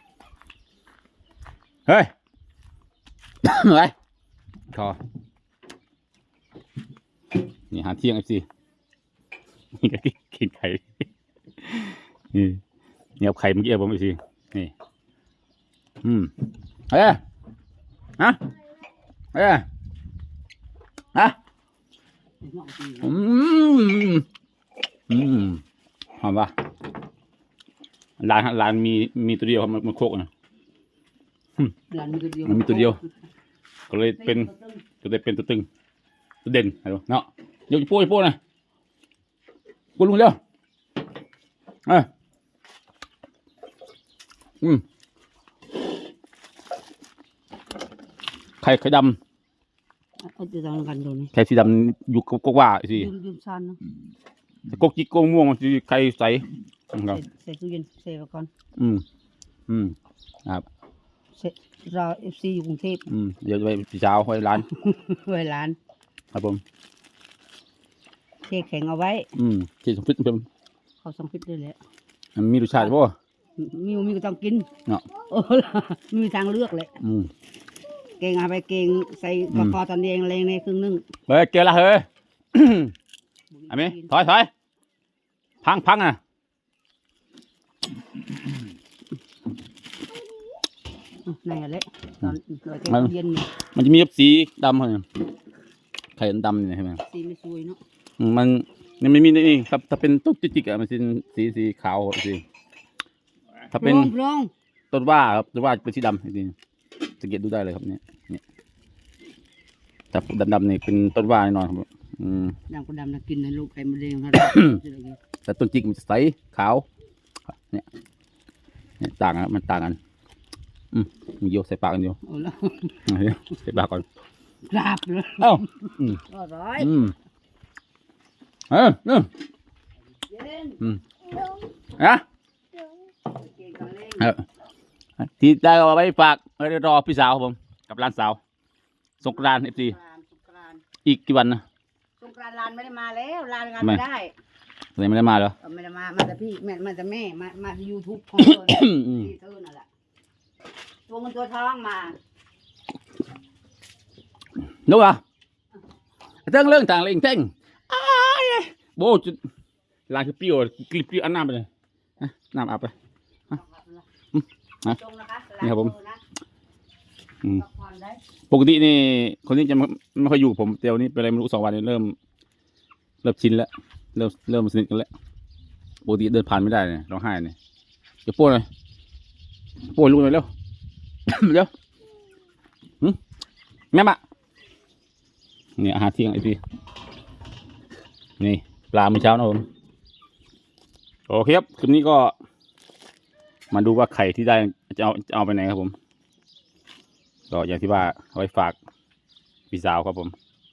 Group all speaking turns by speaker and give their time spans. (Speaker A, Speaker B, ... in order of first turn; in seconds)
Speaker A: 1.9-2.1, 3.4-3.9, 4.7-5.0, 7.7-8.4, 9.8-11.0, 11.6-12.6, 13.2-14.7, 16.0-16.3, 16.9-17.2, 19.3-19.6, 23.0-24.2, 25.1-25.6, 26.2-26.5, 28.2-30.3, 32.4-33.0, 33.9-34.5, 35.0-35.7, 36.4-38.4, 40.0-40.4, 48.6-49.2, 51.3-53.1, 54.7-57.2, 58.8-59.0, 59.7-60.6, 63.1-64.7, 66.3-66.6, 69.3-70.5, 72.3-73.1, 77.0-77.3, 81.3-82.9, 83.7-84.5, 85.6-86.2, 93.7-95.0, 96.2-97.0, 98.2-102.4, 103.7-104.1, 104.9-106.5, 107.2-108.4, 110.1-112.5, 114.4-114.8, 115.4-116.8, 119.0-120.0, 120.9-122.2, 123.0-124.0, 125.4-126.2, 126.8-127.1, 128.7-129.3, 132.0-132.2, 135.2-138.4, 139.2-139.9, 141.0-141.6, 145.0-145.5, 148.4-149.3, 154.8-155.2, 156.4-159.4, 160.1-161.7, 162.2-162.9, 164.3-165.0, 165.6-165.9, 168.5-172.2, 173.2-175.1, 176.0-177.5, 178.2-178.7, 179.9-180.5, 181.3-181.7, 183.9-184.2, 185.8-186.6, 188.4-189.7, 191.3-192.3, 193.7-195.9, 197.5-198.8, 199.7-200.3
Speaker B: 22.4-23.1, 31.9-33.0, 34.2-34.8, 50.2-51.3, 52.9-53.8, 57.1-58.5, 61.4-63.0, 64.6-65.8, 68.5-69.3, 71.0-71.8, 73.6-77.0, 78.2-81.0, 83.5-84.2, 91.2-93.5, 97.0-97.8, 103.7-104.5, 112.7-115.2, 122.2-123.0, 124.7-126.9, 130.3-130.8, 133.2-134.3, 139.3-140.8, 142.2-144.3, 145.6-149.9, 151.1-152.2, 163.5-164.0, 164.8-166.2, 167.6-168.2